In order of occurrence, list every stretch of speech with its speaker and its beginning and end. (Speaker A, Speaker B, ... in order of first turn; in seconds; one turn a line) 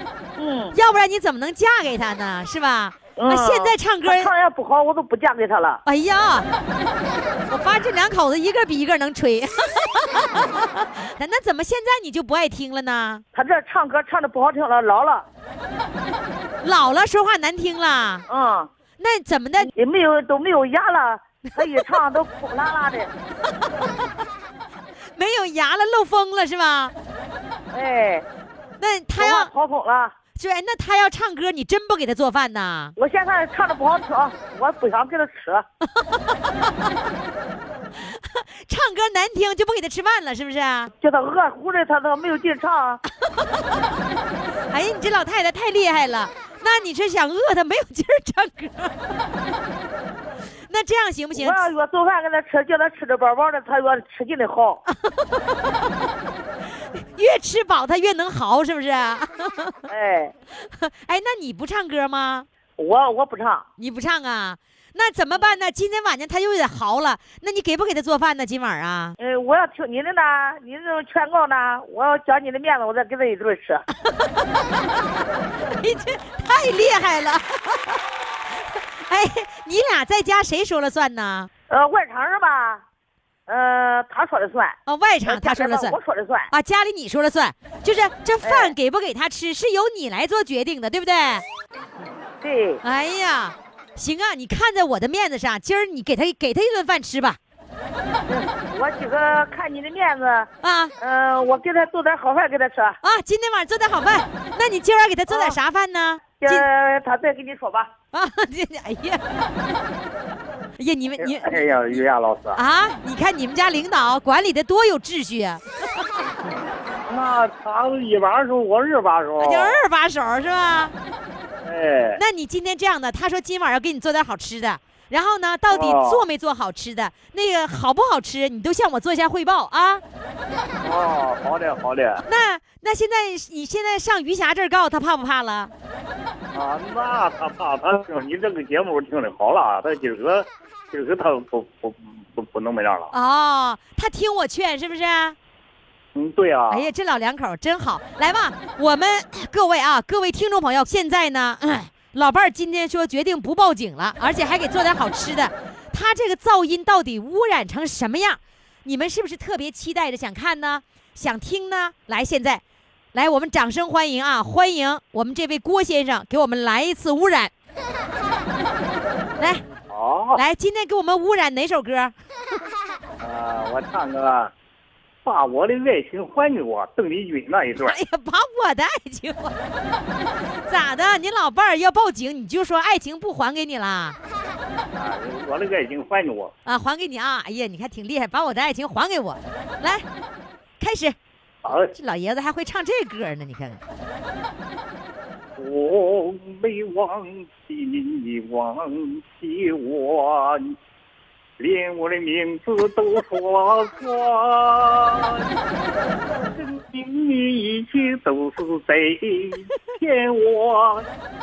Speaker A: 0.4-0.7
Speaker B: 0.7-4.3
Speaker A: 3.2-5.8
Speaker B: 5.8-6.5
Speaker B: 7.5-13.2
Speaker A: 13.3-15.3
Speaker B: 16.6-18.2
Speaker A: 18.3-18.7
Speaker B: 19.0-19.7
Speaker A: 19.6-23.1
Speaker B: 21.6-21.9
Speaker B: 25.1-26.9
Speaker A: 27.7-28.2
Speaker B: 28.8-29.5
Speaker A: 29.2-30.1
Speaker B: 30.4-32.9
Speaker A: 33.0-35.6
Speaker B: 36.0-36.7
Speaker B: 38.0-40.9
Speaker A: 40.9-43.0
Speaker B: 44.7-49.0
Speaker B: 50.7-51.6
Speaker A: 51.3-54.8
Speaker B: 54.9-55.9
Speaker B: 57.1-59.8
Speaker A: 59.9-60.3
Speaker B: 60.6-62.5
Speaker A: 62.8-63.6
Speaker B: 63.8-69.1
Speaker A: 69.2-73.8
Speaker B: 74.1-74.8
Speaker B: 75.7-78.0
Speaker B: 78.5-81.5
Speaker A: 81.7-82.8
Speaker A: 83.5-86.5
Speaker B: 84.8-86.0
Speaker B: 86.5-91.4
Speaker A: 88.4-88.7
Speaker A: 92.4-92.8
Speaker B: 92.8-97.4
Speaker A: 98.3-103.0
Speaker B: 100.6-100.9
Speaker B: 103.0-106.7
Speaker A: 105.3-105.6
Speaker A: 106.4-107.9
Speaker B: 108.1-109.4
Speaker B: 110.8-112.0
Speaker C: 111.2-112.6
Speaker B: 112.5-115.6
Speaker C: 117.1-119.8
Speaker B: 119.4-120.9
Speaker C: 121.6-122.2
Speaker B: 122.2-130.0
Speaker C: 125.7-126.2
Speaker C: 130.8-132.2
Speaker B: 132.2-135.7
Speaker C: 136.5-143.1
Speaker B: 143.1-145.3
Speaker C: 146.1-146.9
Speaker B: 146.7-162.6
Speaker B: 163.1-167.5
Speaker C: 169.9-170.4
Speaker B: 170.3-172.1
Speaker C: 173.2-174.5
Speaker C: 175.2-178.0
Speaker B: 177.8-179.5
Speaker B: 180.7-184.2
Speaker C: 184.9-186.5
Speaker B: 186.7-190.0
Speaker B: 190.8-191.2
Speaker C: 191.6-191.9
Speaker B: 191.7-193.8
Speaker C: 195.6-200.7
Speaker C: 201.6-205.5
Speaker C: 206.5-211.1